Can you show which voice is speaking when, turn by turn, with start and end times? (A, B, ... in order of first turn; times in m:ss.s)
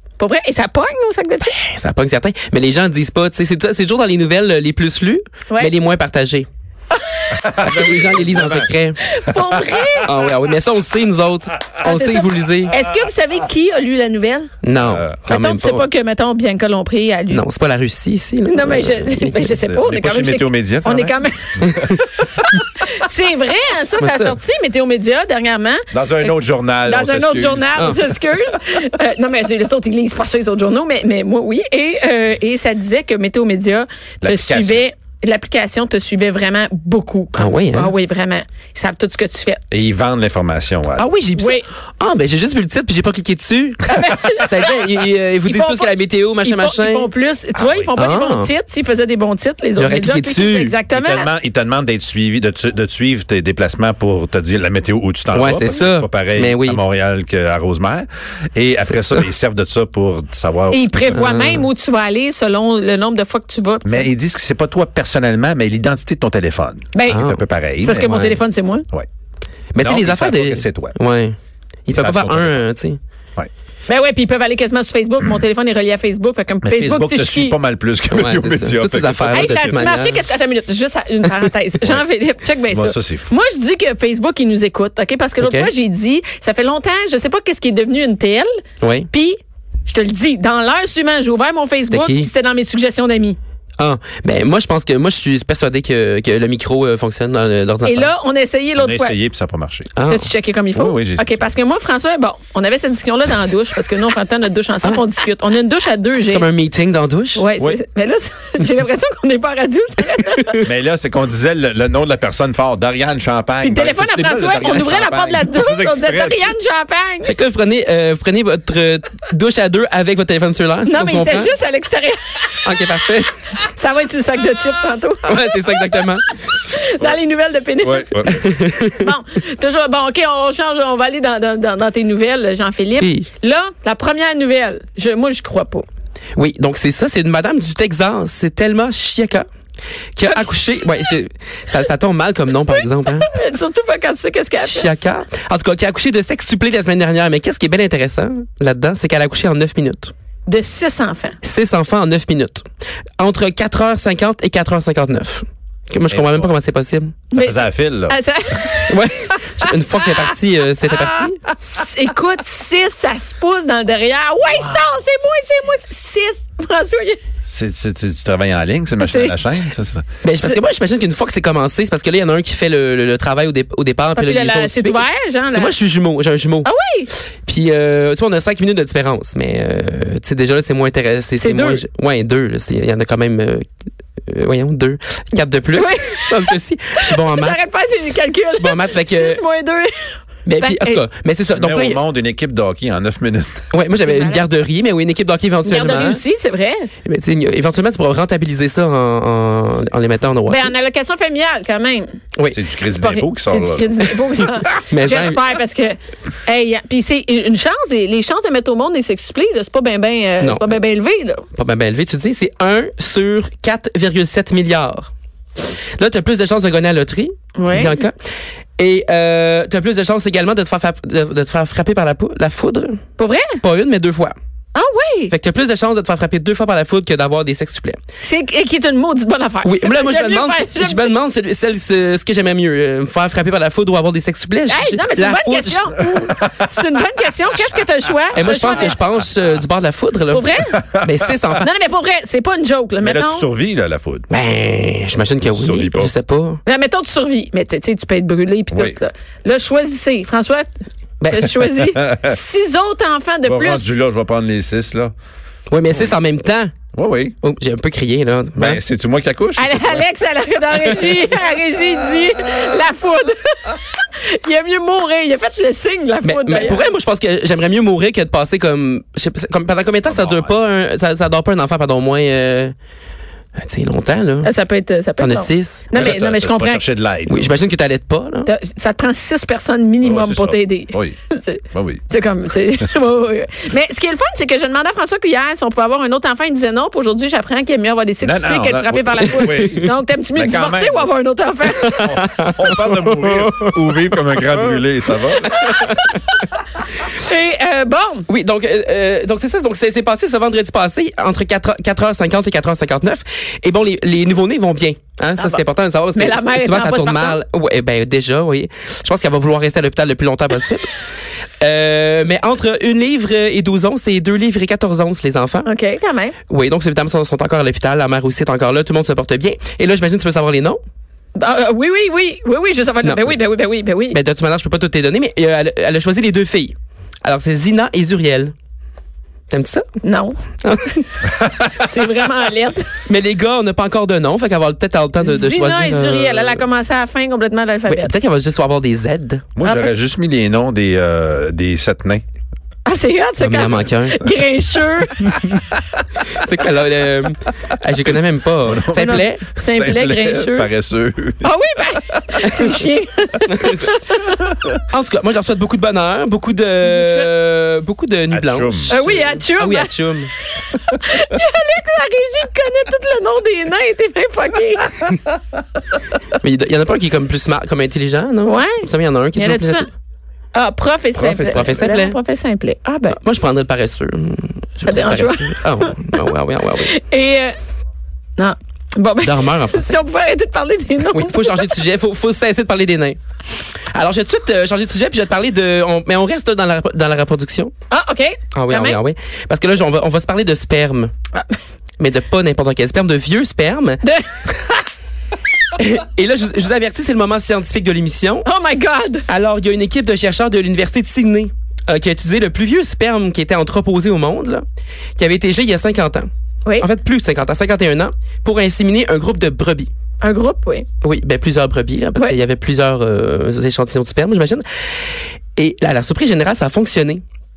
0:00.2-0:01.6 A
0:01.6-0:06.5 B
0:07.3-0:08.0 A
0:07.4-0:08.5 C
0:07.6-0:09.0 B
0:09.0-0:10.1 A
0:10.0-0:12.7 B
0:11.8-0:14.5 A
0:14.6-0:15.8 B
0:14.8-0:15.2 C
0:15.3-0:17.4 A
0:17.3-0:19.5 B
0:18.5-0:21.8 A
0:19.6-0:21.9 C
0:21.7-0:22.0 B
0:23.0-0:39.6 A
0:24.0-0:24.4 B
0:25.9-0:28.0 C
0:34.2-0:34.8 C
0:37.4-0:37.9 B
0:39.7-0:41.1 C
0:41.0-0:47.1 B
0:41.4-0:41.6 A
0:43.9-0:44.8 A
0:45.4-0:45.9 A
0:46.4-0:51.3 A
0:47.6-0:47.9 C
0:48.0-0:48.5 B
0:49.8-0:50.8 B
0:50.9-1:00.9 C
0:55.3-0:56.8 B
0:58.8-0:59.3 B
1:00.7-1:04.1 A
1:01.1-1:01.7 B
1:03.8-1:09.1 C
1:06.9-1:07.2 A
1:07.1-1:07.4 B
1:07.8-1:08.9 A
1:09.7-1:13.0 B
1:09.8-1:11.0 C
1:11.9-1:12.6 C
1:13.9-1:17.6 A
1:16.6-1:19.9 C
1:18.1-1:20.2 B
1:19.3-1:28.5 A
1:22.7-1:23.3 C
1:25.4-1:25.7 B
1:28.8-1:29.1 B
1:29.1-1:33.4 A
1:31.9-1:32.3 B
1:33.8-1:38.1 B
1:37.8-1:39.2 A
1:38.8-1:39.9 C
1:40.0-1:40.3 B
1:40.1-1:46.5 A
1:40.7-1:41.5 C
1:46.3-1:47.4 B
1:47.4-1:50.6 A
1:50.6-1:56.5 C
1:53.6-1:57.3 A
1:57.2-2:01.5 B
2:00.8-2:02.8 A
2:02.6-2:03.3 B
2:03.5-2:08.1 A
2:05.3-2:06.3 B
2:07.8-2:08.5 C
2:08.3-2:09.1 B
2:08.9-2:15.9 A
2:13.0-2:13.3 B
2:16.4-2:19.5 B
2:20.2-2:23.3 B
2:23.1-2:24.9 A
2:24.6-2:30.1 B
2:30.5-2:31.4 A
2:31.4-2:32.6 B
2:33.2-2:37.2 B
2:36.1-2:36.6 C
2:37.3-2:38.2 C
2:37.3-2:39.4 A
2:38.9-2:41.4 B
2:41.6-2:47.2 A
2:47.5-2:50.0 C
2:49.0-2:49.4 A
2:50.2-2:56.7 B
2:54.2-2:55.7 A
2:56.6-2:57.1 A
2:57.5-3:03.6 B
3:01.4-3:01.8 A
3:04.3-3:07.6 B
3:05.8-3:06.5 A
3:07.1-3:10.0 A
3:08.5-3:09.4 B
3:10.5-3:12.0 B
3:10.6-3:11.0 A
3:11.5-3:13.7 C
3:13.7-3:16.2 B
3:14.0-3:14.4 A
3:15.6-3:16.9 A
3:17.1-3:20.7 B
3:20.5-3:22.1 A
3:22.5-3:24.1 C
3:22.9-3:31.4 A
3:24.9-3:25.4 B
3:30.4-3:30.8 B
3:31.6-3:35.1 B
3:36.0-3:38.1 B
3:37.6-3:38.0 A
3:38.8-3:43.0 B
3:43.2-3:43.6 A
3:43.6-3:44.4 B
3:44.7-3:45.3 A
3:45.3-3:48.0 B
3:48.2-3:51.1 A
3:49.6-3:56.1 B
3:54.7-3:59.0 A
3:58.4-4:01.6 B
3:58.4-3:58.9 C
4:00.3-4:00.8 A
4:01.6-4:03.5 A
4:03.0-4:04.3 C
4:04.3-4:06.6 B
4:05.4-4:06.1 C
4:06.6-4:10.7 A
4:08.7-4:09.0 C
4:11.2-4:11.6 B
4:11.3-4:13.9 A
4:11.7-4:12.4 C
4:13.5-4:15.1 C
4:15.7-4:16.7 B
4:15.9-4:16.2 C
4:16.9-4:17.4 C
4:17.4-4:18.8 B
4:18.6-4:20.1 C
4:19.6-4:26.8 A
4:26.2-4:32.7 B
4:30.0-4:30.5 C
4:33.6-4:34.5 B
4:34.4-4:36.8 A
4:35.2-4:36.2 B
4:36.0-4:37.6 C
4:37.3-4:38.5 B
4:38.4-4:52.0 A
4:40.0-4:41.2 C
4:41.7-4:42.0 C
4:48.2-4:51.1 C
4:51.8-4:54.8 B
4:52.0-4:55.9 C
4:55.4-4:56.4 B
4:55.5-4:56.2 A
4:57.0-4:58.3 A
4:58.3-5:11.0 B
5:06.2-5:07.4 A
5:11.6-5:15.7 B
5:15.6-5:16.4 A
5:16.5-5:20.8 B
5:21.4-5:24.2 A
5:23.0-5:23.4 B
5:24.1-5:28.5 B
5:29.5-5:29.8 B
5:30.0-5:30.4 A
5:31.0-5:33.0 A
5:33.1-5:36.6 B
5:35.2-5:38.1 A
5:37.9-5:39.5 B
5:39.6-5:42.2 C
5:39.6-5:39.9 A
5:42.9-5:45.6 A
5:43.4-5:44.2 B
5:46.2-5:49.4 B
5:48.6-5:51.5 C
5:48.9-5:50.7 A
5:51.4-5:54.5 A
5:52.1-5:52.4 C
5:53.5-5:53.9 B
5:54.9-6:00.3 B
5:56.9-5:57.3 A
5:58.3-5:59.0 C
5:58.9-5:59.9 A
6:00.6-6:05.0 A
6:06.4-6:09.9 B
6:08.4-6:09.9 A
6:10.5-6:13.2 A
6:11.2-6:12.2 B
6:13.1-6:16.9 B
6:14.8-6:16.2 A
6:16.8-6:17.5 A
6:18.4-6:21.8 A
6:19.2-6:19.9 B
6:21.1-6:23.2 B
6:23.9-6:27.7 B
6:27.9-6:29.0 A
6:28.5-6:31.1 B
6:32.0-6:34.0 B
6:34.0-6:34.8 A
6:35.8-6:38.5 B
6:38.4-6:39.2 A
6:39.3-6:44.6 B
6:45.2-6:46.3 B
6:46.8-6:49.9 B
6:50.2-6:50.9 A
6:51.0-6:54.6 B
6:55.6-6:57.2 B